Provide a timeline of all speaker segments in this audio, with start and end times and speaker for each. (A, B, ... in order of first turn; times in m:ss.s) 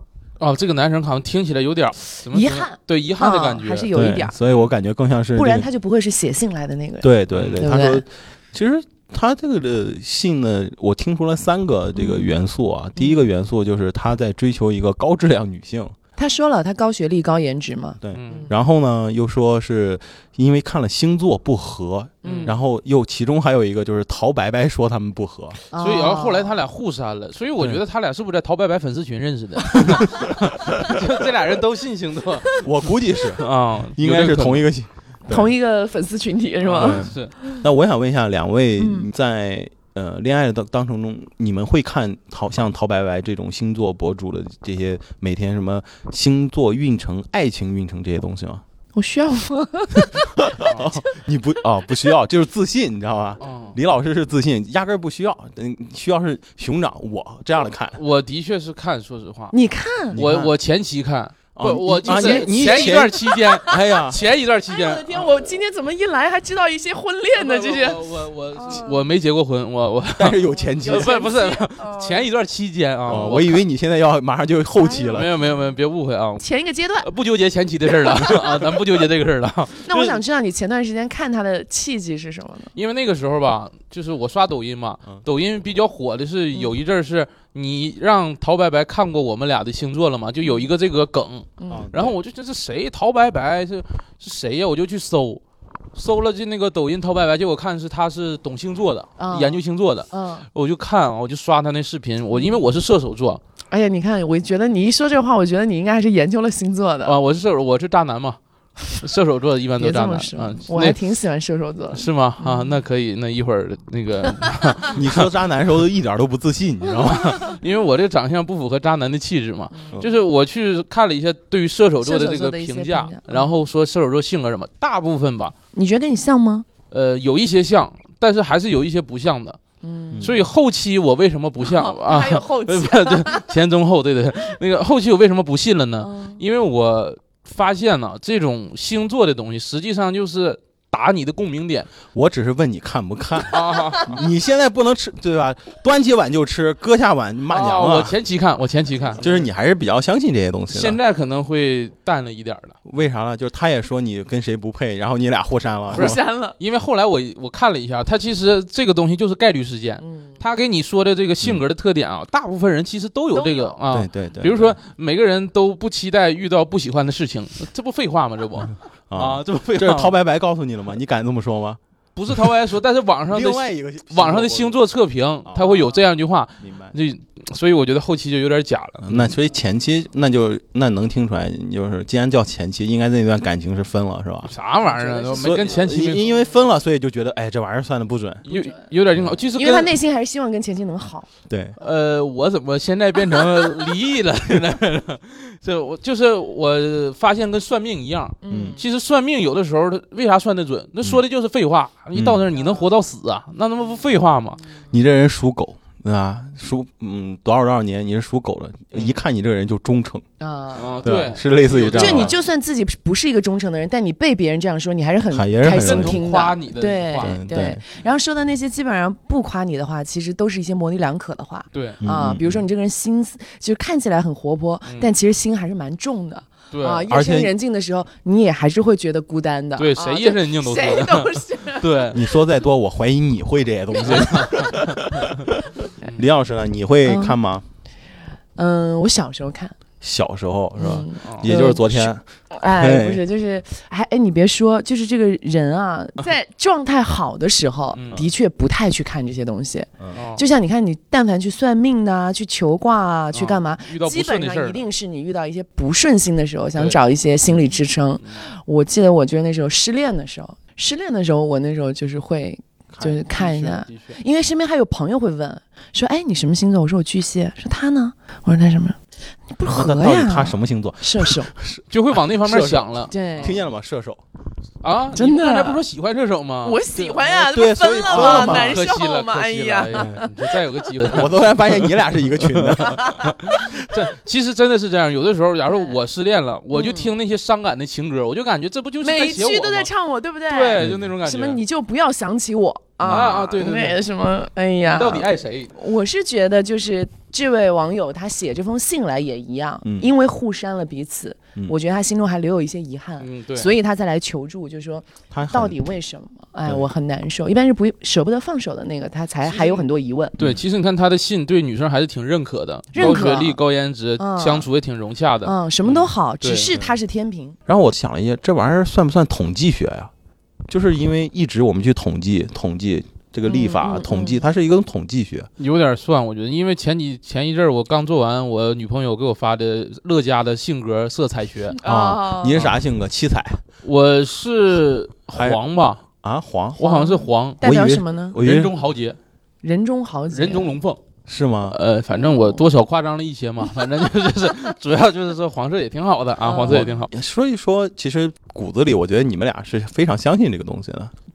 0:00.4-0:03.9 A
0:02.3-0:04.3 B
0:03.9-0:05.7 C
0:05.4-0:08.0 B
0:07.0-0:16.0 C
0:07.3-0:07.7 A
0:12.0-0:12.4 B
0:13.0-0:13.3 B
0:16.2-0:18.5 B
0:18.0-0:25.6 C
0:18.2-0:18.5 A
0:22.2-0:22.5 B
0:22.2-0:22.6 A
0:25.7-0:26.6 B
0:25.8-0:32.6 A
0:29.7-0:30.6 C
0:32.6-0:35.5 C
0:33.3-0:34.7 A
0:35.3-0:37.1 B
0:36.7-0:37.3 A
0:36.7-0:48.6 C
0:38.8-0:39.1 B
0:49.0-0:51.0 B
0:49.9-0:58.0 C
0:53.4-0:53.8 A
0:57.9-0:59.5 A
0:59.5-1:00.2 B
1:00.1-1:00.5 C
1:00.2-1:05.2 A
1:01.5-1:04.2 C
1:02.0-1:03.8 B
1:04.7-1:09.1 B
1:07.4-1:13.6 A
1:10.2-1:11.2 C
1:10.8-1:12.3 B
1:13.1-1:15.3 C
1:13.1-1:13.5 B
1:14.8-1:15.7 B
1:15.1-1:16.5 A
1:16.4-1:17.1 B
1:17.0-1:20.2 A
1:18.2-1:18.5 B
1:19.8-1:22.7 B
1:22.8-1:35.4 A
1:31.6-1:31.9 B
1:31.7-1:32.2 C
1:35.9-1:43.4 A
1:39.2-1:39.6 B
1:40.1-1:40.5 B
1:42.3-1:42.6 B
1:43.7-1:47.1 B
1:47.0-1:51.0 A
1:49.8-1:52.8 B
1:51.9-1:55.3 A
1:54.9-1:57.5 C
1:57.3-2:05.5 A
1:59.7-2:00.0 B
2:02.0-2:03.5 B
2:05.7-2:06.7 B
2:06.9-2:09.6 A
2:09.8-2:10.3 B
2:10.1-2:10.5 C
2:10.2-2:21.9 A
2:11.6-2:13.5 B
2:16.0-2:16.4 B
2:22.1-2:28.2 C
2:23.5-2:24.2 A
2:23.7-2:24.0 B
2:27.5-2:29.4 A
2:29.2-2:31.0 C
2:30.7-2:32.8 A
2:32.9-2:36.2 C
2:35.9-2:50.2 A
2:35.9-2:36.6 B
2:40.0-2:40.4 B
2:43.3-2:43.8 B
2:43.9-2:44.8 C
2:49.1-2:51.8 C
2:52.2-2:59.3 A
2:53.3-2:54.8 C
2:55.4-2:56.0 C
2:56.6-2:57.0 C
2:59.0-3:04.5 C
3:04.5-3:06.3 A
3:04.8-3:05.8 B
3:05.4-3:08.5 C
3:08.5-3:08.8 B
3:08.5-3:09.9 A
3:09.6-3:11.3 B
3:11.5-3:11.8 C
3:11.8-3:24.6 A
3:18.4-3:18.8 B
3:18.5-3:18.8 C
3:22.2-3:22.4 C
3:22.5-3:22.9 B
3:24.6-3:24.9 B
3:24.9-3:30.2 C
3:30.4-3:31.0 B
3:30.8-3:32.4 A
3:31.0-3:32.4 C
3:31.9-3:52.1 B
3:35.3-3:36.2 C
3:35.8-3:37.7 A
3:37.2-3:37.8 C
3:41.7-3:42.0 A
3:42.0-3:42.6 C
3:46.7-3:47.1 A
3:47.1-3:47.5 C
3:49.8-3:52.2 A
3:52.1-3:57.6 C
3:54.0-3:55.4 A
3:57.1-3:57.4 B
3:58.6-3:59.8 B
4:00.0-4:02.2 C
4:00.8-4:29.0 B
4:02.8-4:03.2 C
4:08.0-4:08.2 A
4:10.2-4:10.4 A
4:13.3-4:14.8 A
4:22.9-4:23.5 C
4:23.4-4:24.2 A
4:29.5-4:31.5 B
4:29.7-4:34.2 C
4:31.9-4:33.5 A
4:33.1-4:33.6 B
4:34.8-4:36.8 A
4:35.1-4:35.8 B
4:36.6-4:40.3 B
4:37.0-4:38.8 C
4:38.1-4:49.9 A
4:39.9-4:40.2 C
4:41.0-4:43.8 C
4:42.8-4:43.4 B
4:45.7-4:46.0 B
4:46.7-4:47.1 B
4:49.0-5:10.4 B
4:50.5-4:51.6 A
4:50.8-4:51.1 C
4:53.0-4:54.0 A
4:54.8-4:55.7 A
4:59.8-5:00.1 C
5:03.2-5:03.7 A
5:05.3-5:05.8 C
5:09.5-5:09.8 A
5:10.4-5:16.7 A
5:12.9-5:13.6 B
5:14.2-5:14.7 B
5:15.4-5:17.6 B
5:17.7-5:20.1 C
5:20.7-5:25.5 C
5:23.5-5:24.5 B
5:25.6-5:31.8 A
5:31.8-5:32.7 B
5:31.8-5:33.6 C
5:33.8-5:36.0 A
5:35.3-5:35.6 C
5:36.2-5:36.8 C
5:36.8-5:38.4 B
5:36.8-5:37.6 A
5:37.6-5:38.7 C
5:38.4-5:39.2 A
5:39.6-5:40.8 B
5:40.3-5:41.0 A
5:41.3-5:41.8 C
5:41.7-5:47.1 A
5:42.1-5:42.6 B
5:46.4-5:47.1 B
5:46.7-5:51.1 C